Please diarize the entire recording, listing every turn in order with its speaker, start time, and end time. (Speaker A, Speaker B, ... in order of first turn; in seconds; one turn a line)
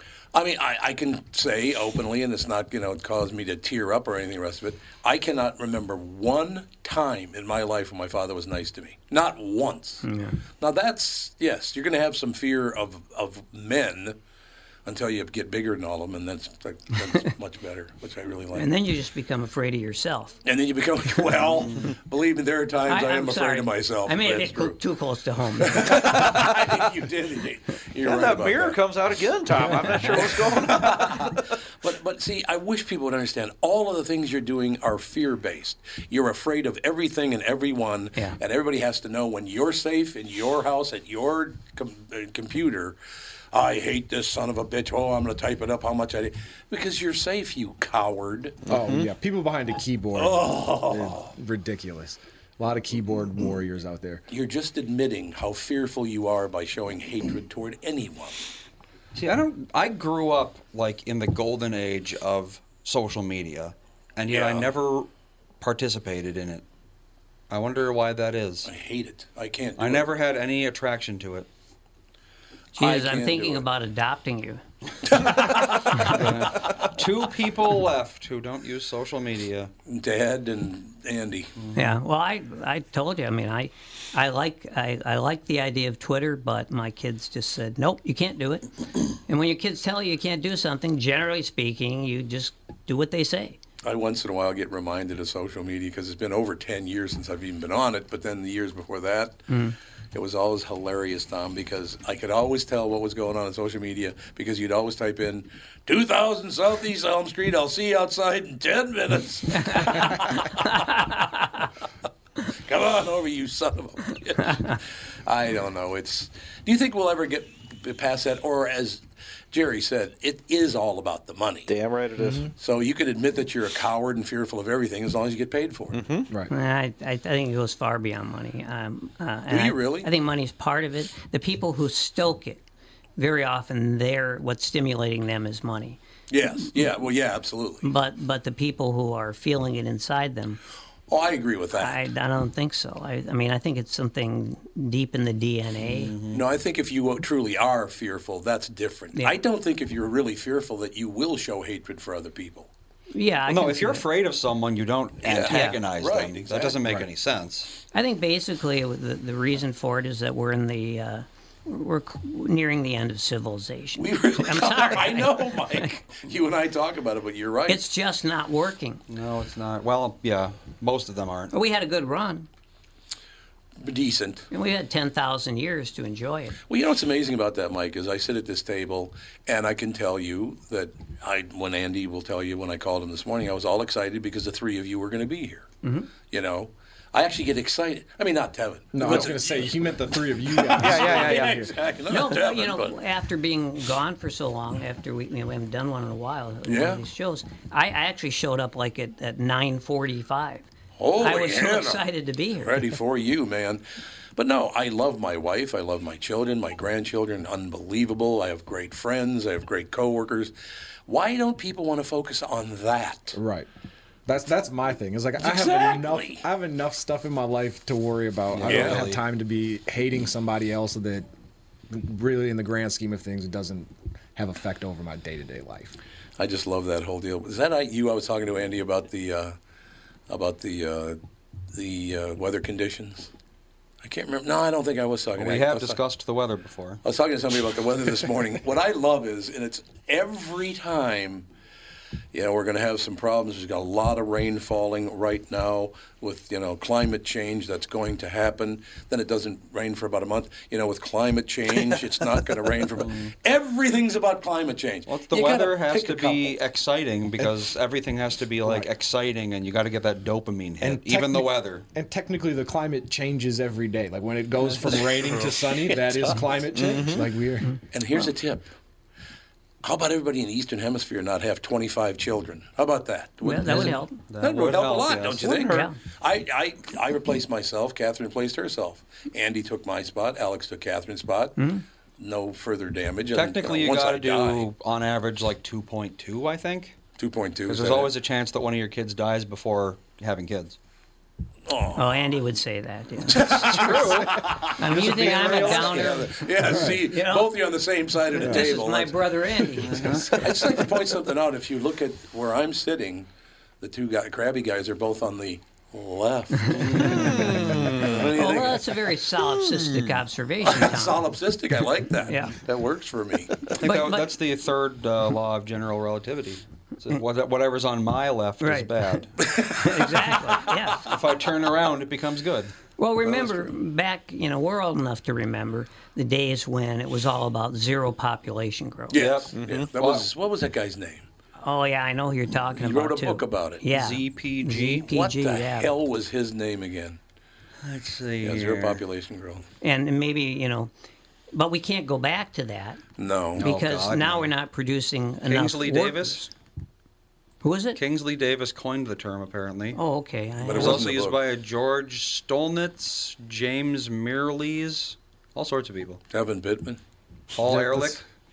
Speaker A: 0.3-10.1
Speaker B: 10.0-10.4
Speaker A: 10.6-14.2
Speaker A: 14.8-18.7
Speaker B: 18.5-20.4
Speaker A: 20.4-24.8
Speaker B: 22.9-26.0
Speaker A: 25.6-28.8
Speaker C: 28.0-31.4
Speaker A: 29.8-43.0
Speaker A: 43.5-48.7
Speaker D: 48.6-54.2
Speaker C: 48.7-49.1
Speaker A: 50.1-51.3
Speaker A: 54.3-58.4
Speaker E: 59.1-65.1
Speaker A: 64.3-64.7
Speaker E: 65.6-66.6
Speaker E: 67.5-68.7
Speaker A: 68.6-70.1
Speaker E: 69.8-71.5
Speaker B: 72.8-74.6
Speaker A: 72.8-73.6
Speaker A: 75.1-76.7
Speaker E: 76.1-79.7
Speaker A: 79.8-81.5
Speaker E: 81.6-81.9
Speaker B: 81.7-93.6
Speaker A: 93.8-99.4
Speaker B: 99.5-99.8
Speaker A: 100.1-111.2
Speaker B: 109.6-111.1
Speaker A: 112.6-121.7
Speaker C: 121.7-122.5
Speaker D: 122.2-122.5
Speaker A: 122.6-126.0
Speaker C: 125.9-126.3
Speaker B: 126.5-132.6
Speaker A: 129.5-130.1
Speaker B: 133.2-136.0
Speaker A: 136.3-137.8
Speaker B: 137.8-140.6
Speaker A: 141.1-142.0
Speaker B: 141.8-146.1
Speaker E: 145.8-146.4
Speaker A: 146.3-152.7
Speaker B: 153.1-154.1
Speaker E: 153.5-157.7
Speaker A: 155.2-156.9
Speaker B: 155.5-155.8
Speaker B: 157.9-165.9
Speaker A: 164.0-167.8
Speaker B: 167.7-169.0
Speaker E: 169.1-171.5
Speaker B: 171.5-172.5
Speaker A: 173.8-174.5
Speaker B: 174.5-176.6
Speaker A: 176.7-185.7
Speaker B: 185.8-186.1
Speaker A: 186.3-193.0
Speaker D: 188.9-191.7
Speaker C: 190.8-191.6
Speaker B: 192.1-200.6
Speaker A: 196.7-197.0
Speaker A: 201.0-202.0
Speaker B: 201.2-202.9
Speaker A: 202.6-203.8
Speaker A: 204.3-210.5
Speaker A: 211.1-213.4
Speaker D: 213.3-213.7
Speaker D: 214.2-221.3
Speaker A: 215.4-216.4
Speaker E: 218.5-219.2
Speaker A: 218.6-219.1
Speaker D: 221.9-225.9
Speaker A: 226.4-229.5
Speaker A: 230.3-231.2
Speaker A: 231.7-233.3
Speaker A: 234.0-236.0
Speaker E: 235.3-237.0
Speaker A: 237.0-241.5
Speaker A: 242.3-256.6
Speaker E: 253.0-253.3
Speaker E: 255.1-261.9
Speaker D: 258.6-258.9
Speaker D: 260.8-267.8
Speaker A: 264.9-266.4
Speaker C: 266.7-267.3
Speaker A: 267.9-268.7
Speaker A: 269.8-281.6
Speaker B: 273.4-274.2
Speaker E: 273.6-275.5
Speaker C: 275.4-275.9
Speaker B: 275.7-275.9
Speaker B: 281.6-281.8
Speaker A: 282.2-284.7
Speaker E: 283.3-287.0
Speaker A: 287.2-288.1
Speaker E: 287.7-290.8
Speaker A: 291.7-292.0
Speaker B: 291.9-294.1
Speaker A: 293.3-299.2
Speaker E: 293.5-296.3
Speaker B: 294.8-297.5
Speaker D: 296.6-297.0
Speaker B: 298.3-300.1
Speaker E: 299.8-300.4
Speaker D: 300.0-300.4
Speaker A: 300.3-303.3
Speaker A: 303.8-309.1
Speaker E: 306.7-307.6
Speaker C: 307.2-308.2
Speaker B: 308.2-311.2
Speaker A: 310.6-313.7
Speaker B: 312.3-312.6
Speaker E: 313.8-319.3
Speaker B: 313.8-314.4
Speaker B: 318.6-318.9
Speaker A: 319.4-320.7
Speaker B: 319.7-321.1
Speaker E: 321.0-322.7
Speaker B: 323.0-329.2
Speaker A: 323.2-323.7
Speaker A: 329.1-331.2
Speaker E: 329.1-330.3
Speaker C: 329.5-329.9
Speaker B: 331.6-335.9
Speaker A: 332.8-333.8
Speaker E: 333.9-335.1
Speaker A: 335.1-337.2
Speaker E: 337.8-339.0
Speaker A: 338.4-339.6
Speaker B: 339.8-340.9
Speaker B: 341.5-343.0
Speaker A: 343.2-343.6
Speaker E: 343.6-344.5
Speaker B: 343.6-346.5
Speaker E: 345.4-346.4
Speaker B: 347.6-348.0
Speaker E: 347.9-350.0
Speaker B: 349.9-351.1
Speaker A: 350.6-351.4
Speaker E: 350.7-356.2
Speaker A: 356.3-357.0
Speaker E: 357.5-358.2
Speaker D: 357.6-358.2